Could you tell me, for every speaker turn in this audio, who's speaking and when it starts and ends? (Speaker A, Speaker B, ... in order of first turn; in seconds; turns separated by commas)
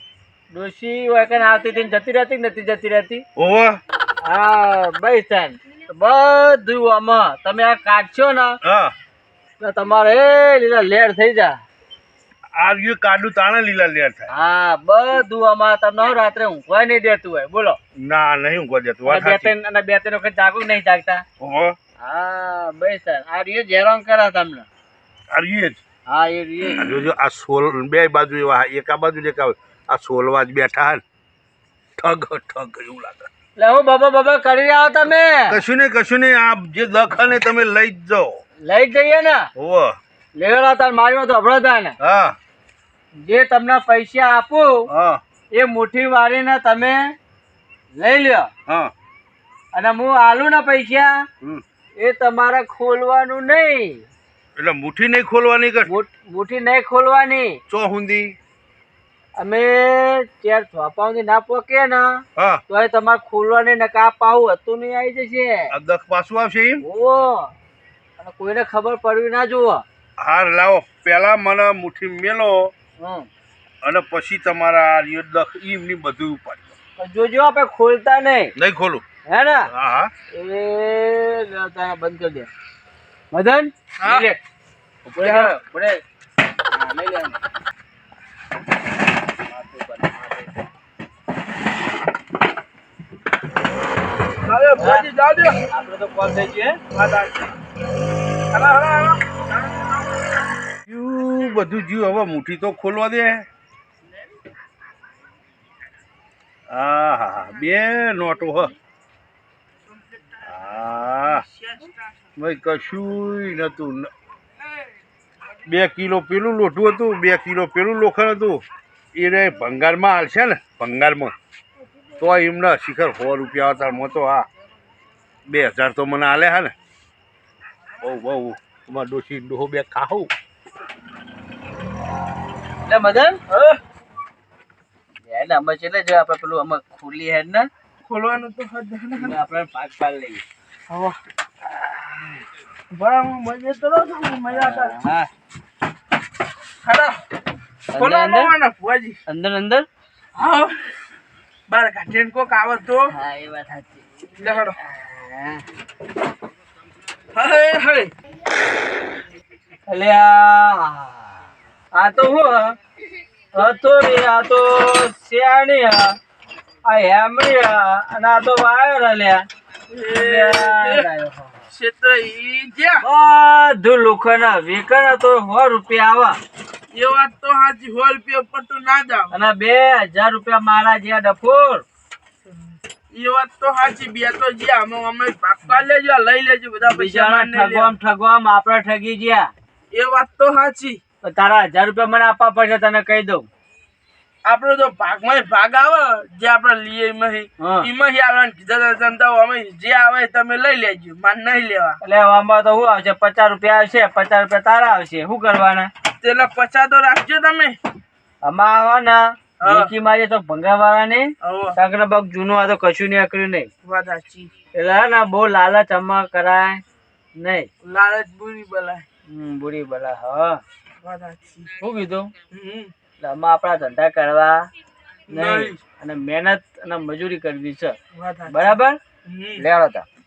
Speaker A: 0.5-3.2, Speaker B: 3.4-3.8, Speaker A: 4.2-8.6, Speaker B: 8.6-8.9, Speaker A: 9.6-11.6, Speaker B: 12.6-14.3, Speaker A: 14.3-17.8, Speaker B: 18.0-19.5, Speaker A: 19.1-21.2, Speaker B: 21.4-21.8, Speaker A: 22.0-24.7, Speaker B: 25.3-25.8, Speaker A: 26.1-27.1, Speaker B: 26.7-31.0, Speaker B: 32.0-33.3, Speaker A: 33.6-35.6, Speaker B: 35.5-38.4, Speaker A: 38.6-39.5, Speaker B: 39.6-40.0, Speaker A: 40.4-42.0, Speaker B: 42.0-42.4, Speaker A: 43.2-44.9, Speaker B: 44.9-45.2, Speaker A: 45.5-47.1, Speaker A: 48.0-48.5, Speaker A: 49.7-51.2, Speaker A: 52.0-54.1, Speaker B: 54.6-55.9, Speaker A: 55.9-57.6, Speaker B: 57.7-58.4, Speaker A: 59.4-65.7, Speaker B: 62.4-62.6, Speaker B: 65.7-66.8, Speaker A: 66.8-67.5, Speaker A: 68.2-69.8, Speaker B: 70.2-72.7, Speaker A: 73.0-73.3, Speaker B: 73.8-76.8, Speaker A: 77.0-78.5, Speaker B: 78.6-79.0, Speaker A: 79.3-79.7, Speaker B: 79.7-80.1, Speaker A: 80.3-82.5, Speaker A: 83.3-84.4, Speaker C: 84.0-84.3, Speaker A: 85.1-86.0, Speaker C: 85.2-85.5, Speaker A: 86.7-87.4, Speaker A: 89.5-90.5, Speaker C: 94.4-95.6, Speaker A: 94.8-95.1, Speaker A: 95.7-96.8, Speaker C: 96.9-97.5, Speaker C: 98.5-99.4, Speaker B: 100.9-103.5, Speaker B: 106.7-108.7, Speaker B: 110.4-111.5, Speaker C: 111.5-112.0, Speaker B: 112.4-114.1, Speaker B: 115.7-118.6, Speaker B: 119.2-121.4, Speaker B: 122.2-124.5, Speaker B: 125.5-126.7, Speaker B: 128.0-130.3, Speaker A: 132.9-133.4, Speaker C: 133.5-133.8, Speaker A: 135.3-137.7, Speaker C: 138.0-139.4, Speaker A: 139.1-140.4, Speaker C: 140.9-141.2, Speaker C: 142.9-144.9, Speaker A: 144.5-145.3, Speaker C: 146.8-147.2, Speaker A: 147.9-148.5, Speaker C: 148.0-149.2, Speaker A: 149.3-149.9, Speaker C: 150.3-150.9, Speaker C: 151.7-153.1, Speaker A: 153.1-155.7, Speaker C: 154.4-154.8, Speaker C: 157.3-158.1, Speaker A: 159.9-161.3, Speaker A: 161.9-162.8, Speaker A: 163.5-166.2, Speaker A: 166.8-169.5, Speaker C: 169.9-171.1, Speaker A: 170.0-171.6, Speaker C: 171.7-173.0, Speaker A: 173.0-176.4, Speaker C: 176.9-179.3, Speaker A: 179.3-181.9, Speaker C: 183.1-187.9, Speaker A: 186.8-189.5, Speaker C: 189.9-191.0, Speaker A: 191.2-193.5, Speaker C: 194.4-202.0, Speaker A: 197.6-197.9, Speaker A: 202.0-205.9, Speaker C: 206.2-207.8, Speaker A: 208.4-213.7, Speaker C: 209.6-209.9, Speaker C: 211.4-211.8, Speaker C: 213.8-214.5, Speaker A: 214.7-216.8, Speaker A: 217.4-217.7, Speaker C: 217.8-219.1, Speaker A: 219.3-220.6, Speaker C: 221.0-221.7, Speaker A: 221.8-222.3, Speaker C: 222.5-222.9, Speaker A: 223.2-224.7, Speaker C: 225.3-225.8, Speaker A: 225.3-228.0, Speaker C: 228.1-229.7, Speaker A: 228.5-229.0, Speaker A: 229.6-230.1